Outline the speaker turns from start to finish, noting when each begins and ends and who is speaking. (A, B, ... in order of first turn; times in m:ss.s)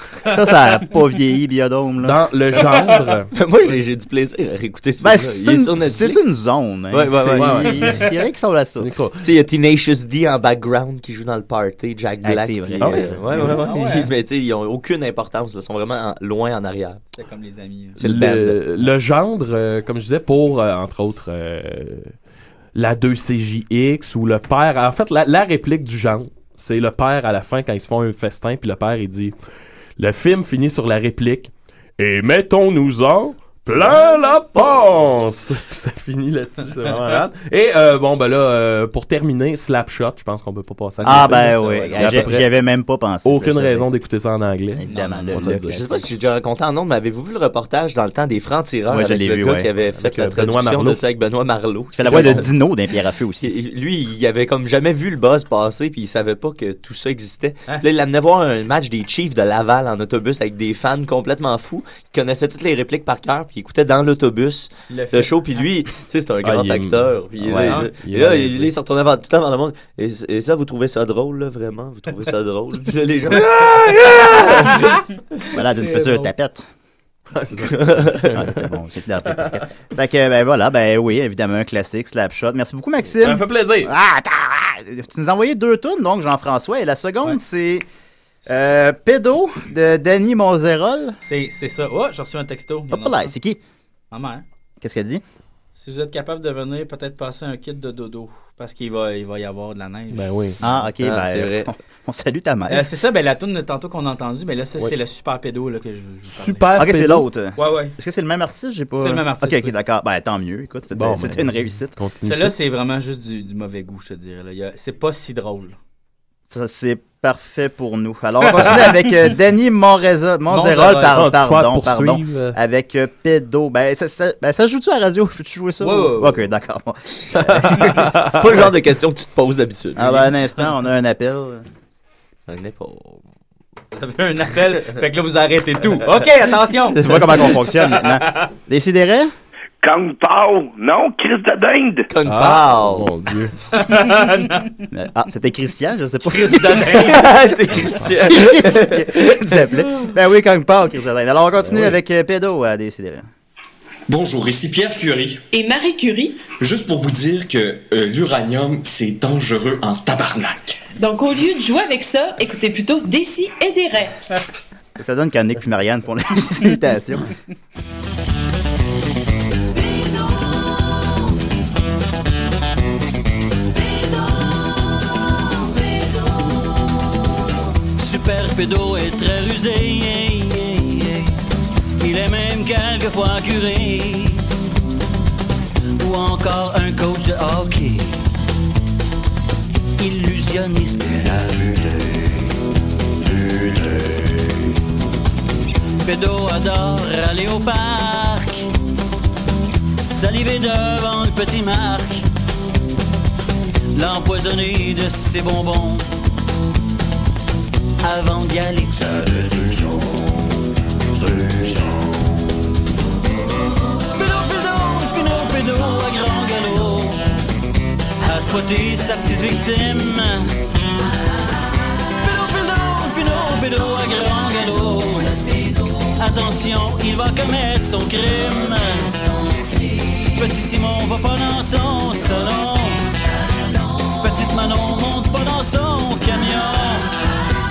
0:00.3-0:02.2 A
0:02.0-0:03.3 B
0:03.3-0:06.3 C
0:05.0-0:08.9 A
0:06.9-0:07.8 C
0:07.3-0:08.0 B
0:08.8-0:09.3 B
0:09.2-0:17.0 C
0:12.2-0:13.6 A
0:12.8-0:13.5 B
0:13.3-0:14.1 D
0:17.2-0:18.0 D
0:18.0-0:18.6 C
0:18.0-0:22.1 B
0:22.8-0:29.4 B
0:30.0-0:42.5 B
0:41.0-0:42.4 D
0:41.0-0:43.9 A
0:43.2-0:45.9 B
0:44.8-0:45.8 A
0:44.9-0:45.4 D
0:45.7-0:52.5 C
0:48.9-0:49.7 A
0:50.0-0:51.0 B
0:52.0-0:53.5 A
0:52.1-0:52.4 B
0:53.4-1:14.8 C
1:04.9-1:05.7 D
1:06.4-1:07.2 B
1:07.4-1:07.8 A
1:08.0-1:08.7 B
1:14.3-1:15.0 D
1:15.5-1:16.6 A
1:15.5-1:16.3 D
1:17.4-1:18.6 B
1:17.7-1:18.3 C
1:18.3-1:27.8 A
1:23.2-1:23.9 B
1:28.5-1:31.2 A
1:31.2-1:33.3 D
1:32.9-1:33.6 A
1:34.1-1:34.4 D
1:34.8-1:35.2 A
1:35.8-1:40.7 D
1:40.1-1:40.6 B
1:40.6-1:42.9 A
1:41.0-1:41.7 C
1:42.7-1:46.9 D
1:46.3-1:47.2 B
1:46.8-1:52.0 A
1:47.6-1:48.0 D
1:49.0-1:49.7 D
1:50.9-1:52.6 B
1:52.2-1:55.8 D
1:56.5-2:08.2 A
1:58.4-1:59.0 D
2:00.5-2:01.2 D
2:01.1-2:02.6 B
2:05.8-2:06.5 D
2:07.4-2:08.5 B
2:08.3-2:10.3 C
2:10.0-2:11.6 A
2:12.5-2:13.2 C
2:14.0-2:18.4 D
2:16.9-2:19.3 A
2:19.8-2:22.1 E
2:22.1-2:23.1 C
2:22.2-2:23.6 B
2:23.7-2:24.7 D
2:24.9-2:27.3 A
2:26.2-2:27.5 D
2:27.0-2:29.6 C
2:28.0-2:33.3 A
2:31.6-2:32.0 B
2:34.1-2:35.4 F
2:35.5-2:36.5 G
2:36.5-2:40.8 F
2:41.0-2:44.2 G
2:45.0-2:47.3 A
2:58.0-3:01.4 H
3:02.0-3:04.5 H
3:06.0-3:08.2 H
3:10.0-3:11.8 H
3:16.0-3:18.7 H
3:20.0-3:22.2 H
3:23.9-3:26.1 H
3:28.0-3:30.0 H
3:34.1-3:37.3 H
3:38.2-3:40.6 H
3:42.2-3:45.4 H
3:46.2-3:49.2 H
3:50.3-3:53.0 H
3:54.1-3:57.2 H